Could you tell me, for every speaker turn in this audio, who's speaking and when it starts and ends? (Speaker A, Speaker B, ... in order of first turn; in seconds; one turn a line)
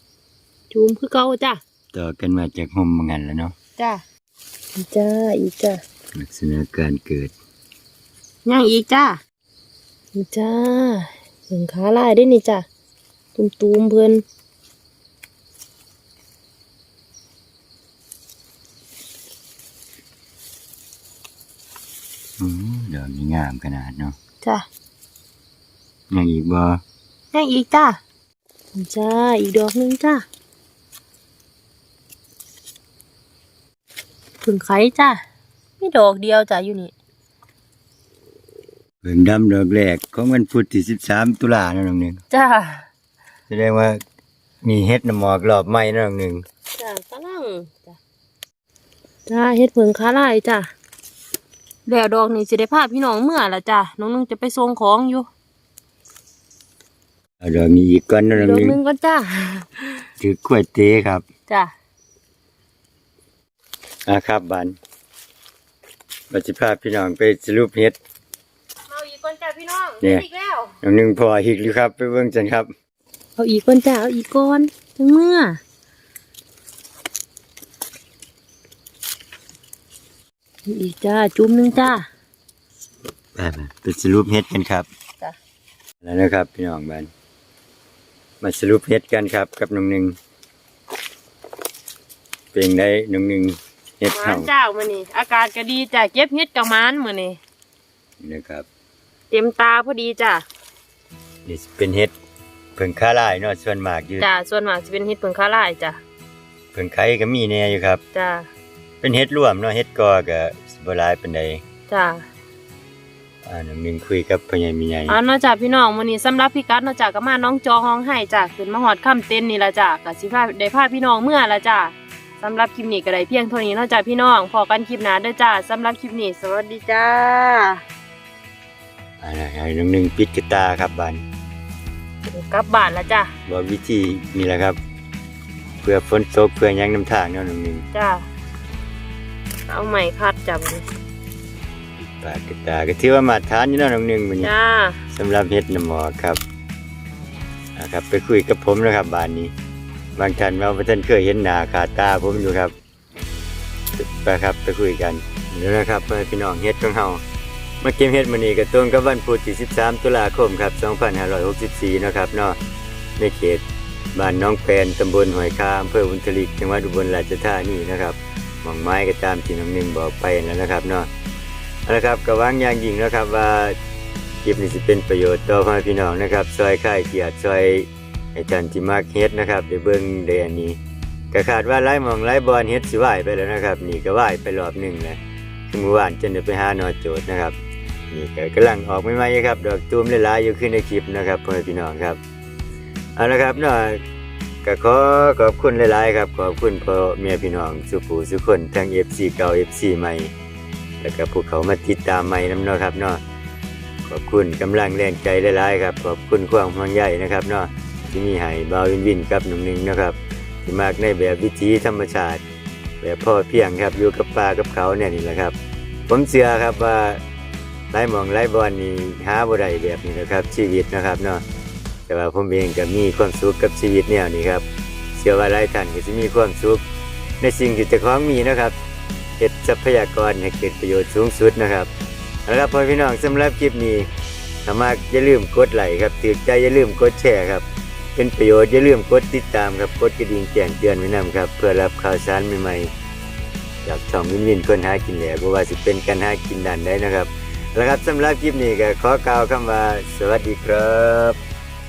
Speaker A: 0.7-1.6
Speaker B: 1.9-3.5
Speaker A: 3.8-4.0
Speaker A: 4.8-5.8
Speaker B: 6.1-7.3
Speaker A: 8.4-9.2
Speaker A: 10.1-12.7
Speaker A: 13.3-14.2
Speaker B: 22.4-24.1
Speaker B: 26.1-26.8
Speaker A: 27.3-28.0
Speaker A: 28.7-30.2
Speaker A: 34.4-35.2
Speaker A: 35.8-36.9
Speaker B: 39.0-42.2
Speaker A: 42.3-42.9
Speaker B: 43.5-44.0
Speaker B: 44.6-46.4
Speaker A: 46.8-48.0
Speaker A: 49.3-50.7
Speaker A: 51.9-55.3
Speaker B: 57.4-58.8
Speaker A: 58.3-60.1
Speaker B: 60.2-61.2
Speaker B: 64.0-64.8
Speaker B: 66.3-68.0
Speaker A: 68.9-70.7
Speaker B: 70.0-70.2
Speaker B: 70.8-72.7
Speaker A: 73.4-75.6
Speaker A: 80.7-82.0
Speaker B: 83.3-84.9
Speaker B: 86.0-87.1
Speaker B: 88.4-90.2
Speaker B: 92.5-94.5
Speaker A: 94.2-97.4
Speaker B: 98.2-98.7
Speaker A: 99.3-100.4
Speaker B: 101.4-102.1
Speaker B: 102.8-104.3
Speaker A: 104.2-106.0
Speaker B: 106.7-108.0
Speaker A: 108.1-108.5
Speaker B: 109.0-111.6
Speaker A: 111.9-112.2
Speaker B: 113.4-115.2
Speaker A: 115.1-127.8
Speaker B: 129.2-131.2
Speaker A: 132.3-133.3
Speaker B: 133.5-134.8
Speaker B: 135.8-137.8
Speaker A: 137.9-138.2
Speaker A: 139.7-140.8
Speaker B: 142.0-144.5
Speaker A: 144.4-145.0
Speaker B: 145.1-146.4
Speaker B: 147.7-149.5
Speaker B: 150.2-152.7
Speaker B: 153.9-157.2
Speaker B: 157.8-162.6
Speaker B: 163.2-163.6
Speaker B: 164.1-171.1
Speaker B: 171.8-173.8
Speaker B: 174.4-180.8
Speaker B: 181.3-187.6
Speaker B: 188.1-192.2
Speaker B: 193.2-194.0
Speaker B: 194.6-200.3
Speaker B: 201.0-203.2
Speaker B: 204.1-212.4
Speaker B: 213.0-215.6
Speaker B: 216.1-217.2
Speaker B: 217.9-221.4
Speaker B: 222.1-224.6
Speaker B: 225.2-226.8
Speaker B: 227.4-228.7
Speaker B: 229.4-231.9
Speaker B: 232.4-234.1
Speaker B: 234.6-242.9
Speaker B: 243.8-251.4